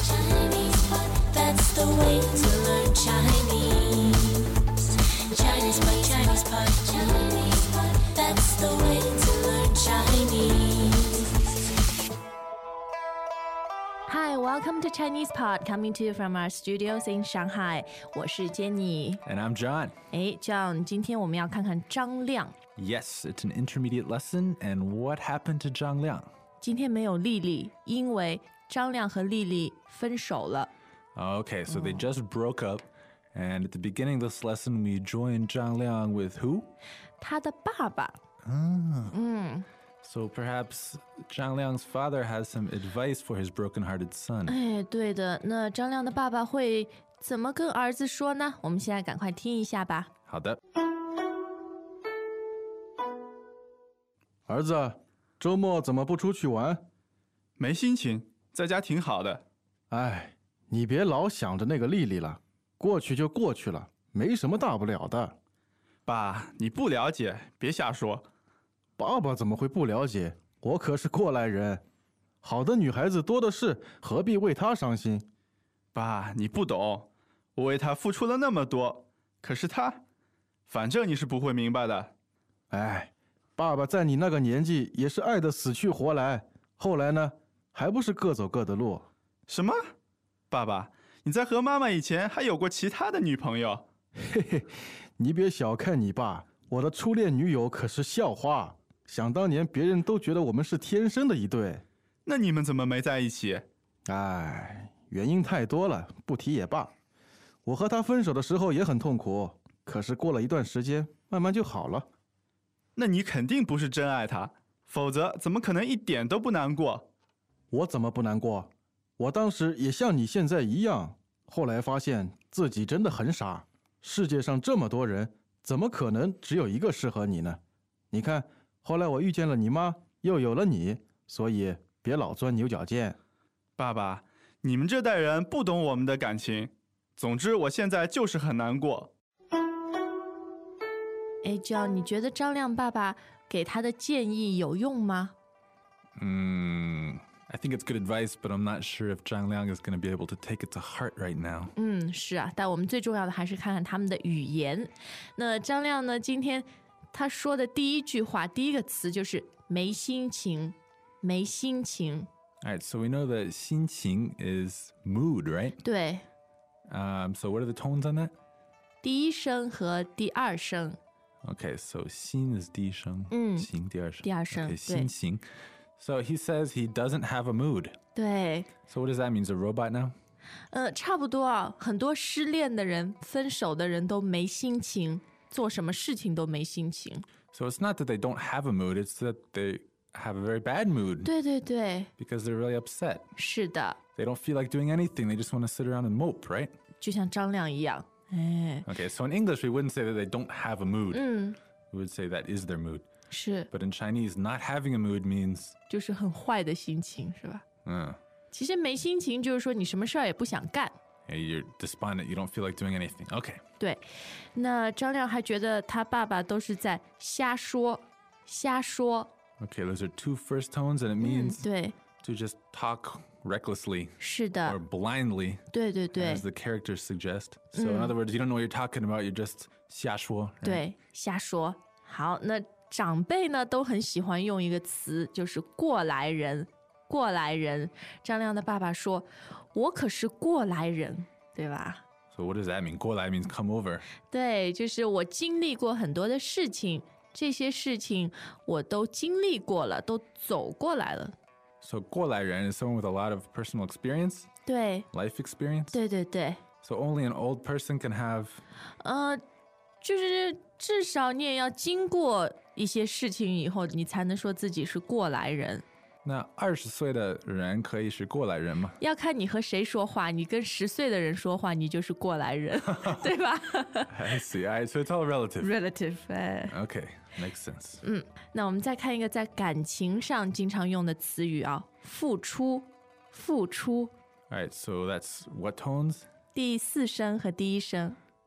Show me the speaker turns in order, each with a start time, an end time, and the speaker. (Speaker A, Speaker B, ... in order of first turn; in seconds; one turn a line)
Speaker A: 1.4-3.6
Speaker A: 5.5-7.2
Speaker A: 8.2-10.9
Speaker B: 14.1-19.2
Speaker C: 19.2-19.9
Speaker B: 20.1-22.5
Speaker C: 22.8-26.3
Speaker B: 26.6-30.7
Speaker C: 31.1-36.7
Speaker B: 31.7-32.1
Speaker B: 37.2-38.2
Speaker C: 38.4-39.1
Speaker B: 39.1-39.6
Speaker C: 40.0-44.5
Speaker B: 44.5-50.1
Speaker C: 50.3-50.6
Speaker D: 54.5-56.8
Speaker E: 57.6-59.4
Speaker D: 59.9-65.3
Speaker E: 66.0-68.3
Speaker D: 69.0-71.8
Speaker D: 72.4-75.2
Speaker E: 75.9-80.0
Speaker E: 80.7-82.1
Speaker D: 82.7-89.1
Speaker E: 89.5-89.8
Speaker E: 90.5-93.8
Speaker D: 94.2-101.8
Speaker E: 102.2-103.7
Speaker D: 104.1-106.9
Speaker D: 107.6-112.0
Speaker E: 113.0-117.1
Speaker D: 117.7-127.6
Speaker D: 128.1-133.2
Speaker E: 133.8-139.1
Speaker B: 141.4-145.3
Speaker C: 146.2-151.7
Speaker B: 151.8-162.3
Speaker C: 162.6-165.8
Speaker B: 165.8-166.2
Speaker C: 166.9-168.3
Speaker B: 169.0-171.0
Speaker C: 171.4-175.4
Speaker B: 173.3-173.7
Speaker B: 174.2-175.1
Speaker C: 176.0-178.0
Speaker B: 178.1-178.7
Speaker C: 178.9-180.1
Speaker B: 180.7-187.2
Speaker C: 187.5-191.3
Speaker B: 191.2-192.1
Speaker C: 192.2-193.2
Speaker B: 193.3-194.0
Speaker C: 194.2-196.7
Speaker B: 197.0-198.8
Speaker C: 198.8-201.3
Speaker B: 201.1-201.6
Speaker C: 201.9-203.1
Speaker B: 203.3-203.7
Speaker C: 203.7-205.7
Speaker B: 205.9-207.6
Speaker C: 207.8-208.2
Speaker B: 208.5-210.9
Speaker C: 211.3-213.6
Speaker B: 213.8-219.3
Speaker C: 219.6-221.6
Speaker B: 221.2-221.9
Speaker C: 222.2-225.6
Speaker B: 224.2-224.8
Speaker B: 225.7-226.4
Speaker C: 226.1-230.8
Speaker B: 227.7-228.1
Speaker B: 230.6-242.0
Speaker C: 242.3-244.1
Speaker B: 244.3-251.3
Speaker C: 251.8-254.5
Speaker B: 254.7-255.1
Speaker C: 255.1-256.0
Speaker B: 255.9-256.6
Speaker C: 256.8-258.6
Speaker B: 259.0-259.4
Speaker B: 260.0-265.8
Speaker C: 266.2-269.0
Speaker B: 269.0-274.1
Speaker C: 274.1-275.7
Speaker B: 275.6-276.7
Speaker C: 276.7-278.0
Speaker B: 278.0-284.1
Speaker C: 284.5-286.2
Speaker B: 286.5-288.2